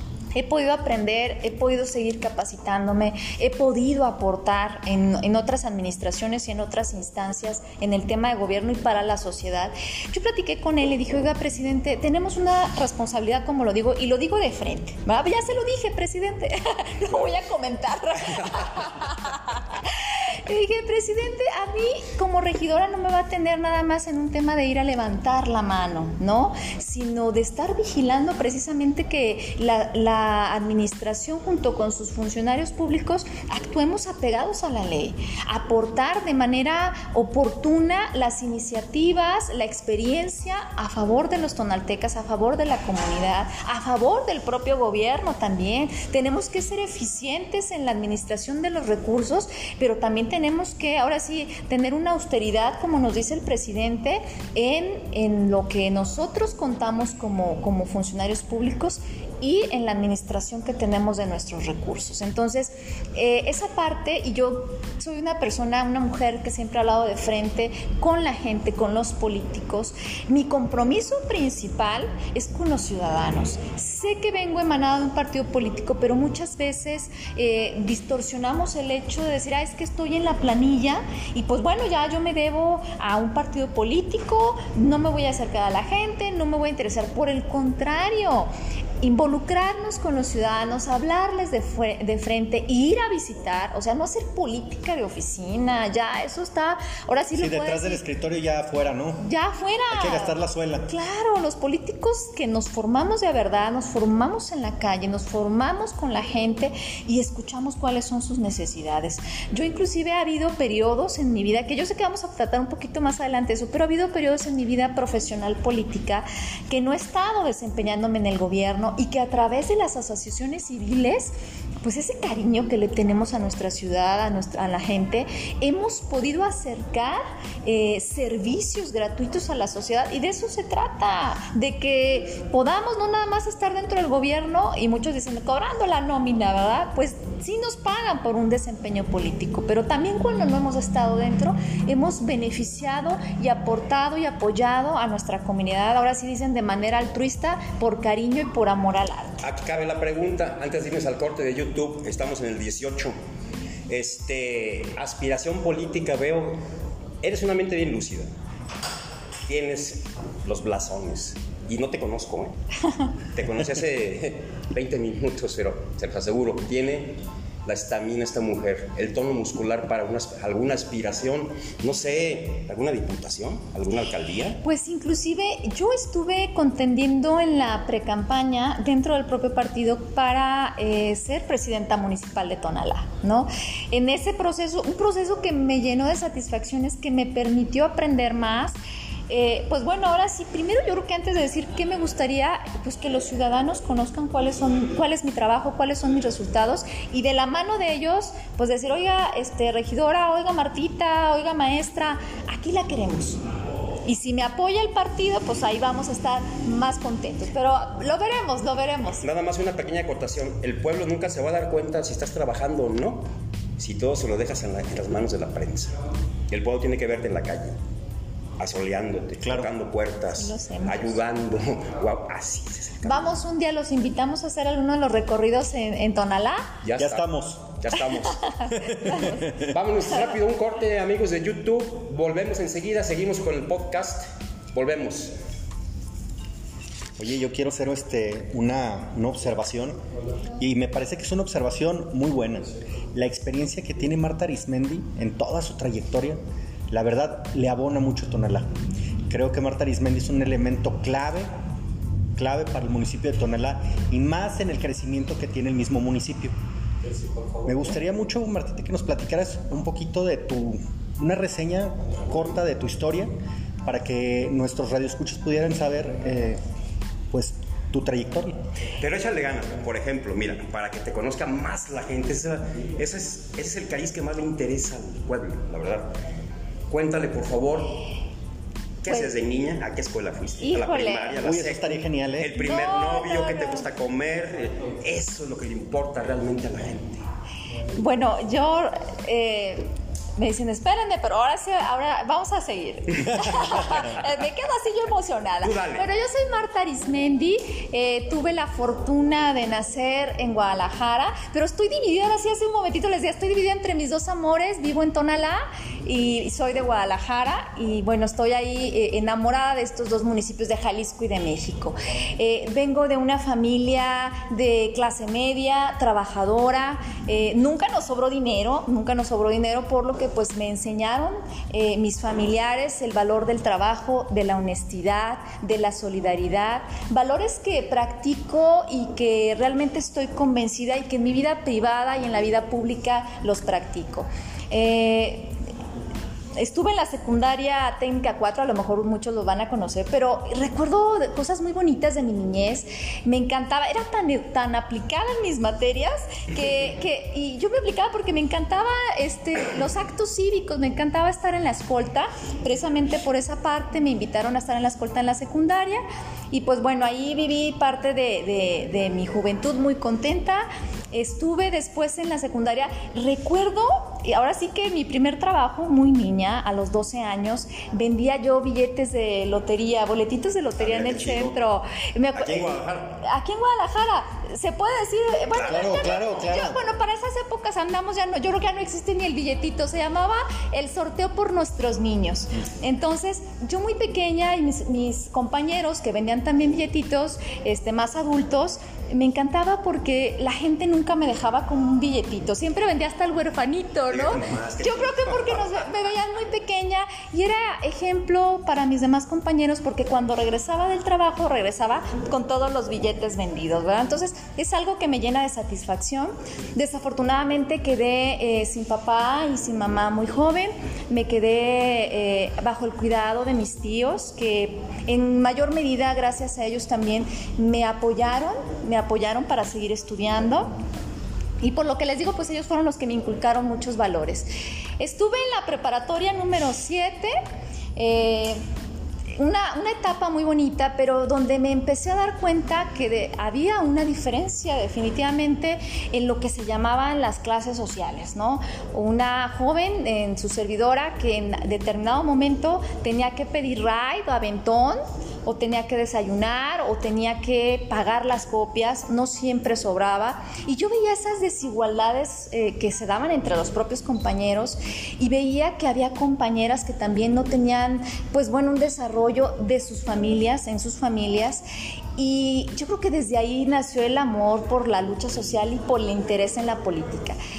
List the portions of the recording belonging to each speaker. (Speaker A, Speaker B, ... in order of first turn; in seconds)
Speaker A: 0.3-88.5, 89.0-98.0, 99.2-100.4, 100.9-149.4, 174.6-188.8, 189.3-203.4, 204.0-209.2, 220.3-221.2, 223.0-226.7, 228.2-229.7, 280.6-281.4, 282.6-283.9, 288.0-335.5, 336.6-420.7, 421.6-427.4, 428.0-428.6, 429.4-461.6, 462.2-467.4
Speaker B: 97.4-99.2, 99.9-100.9, 219.4-219.7, 227.0-227.7, 228.8-229.7, 237.2-240.0, 240.6-246.4, 246.9-248.7, 249.3-251.5, 252.3-256.5, 257.6-263.3, 263.8-266.6, 267.3-268.6, 281.4-282.6, 375.6-376.8
Speaker C: 149.4-153.2, 153.9-156.6, 157.2-158.3, 159.5-162.5, 163.3-174.6, 209.2-215.9, 216.5-217.8, 218.6-223.3, 226.8-228.4, 229.6-235.4, 269.0-276.1, 276.9-278.0, 279.0-287.2, 295.6-296.1, 370.8-371.7, 372.3-373.1, 375.5-376.3, 394.1-395.9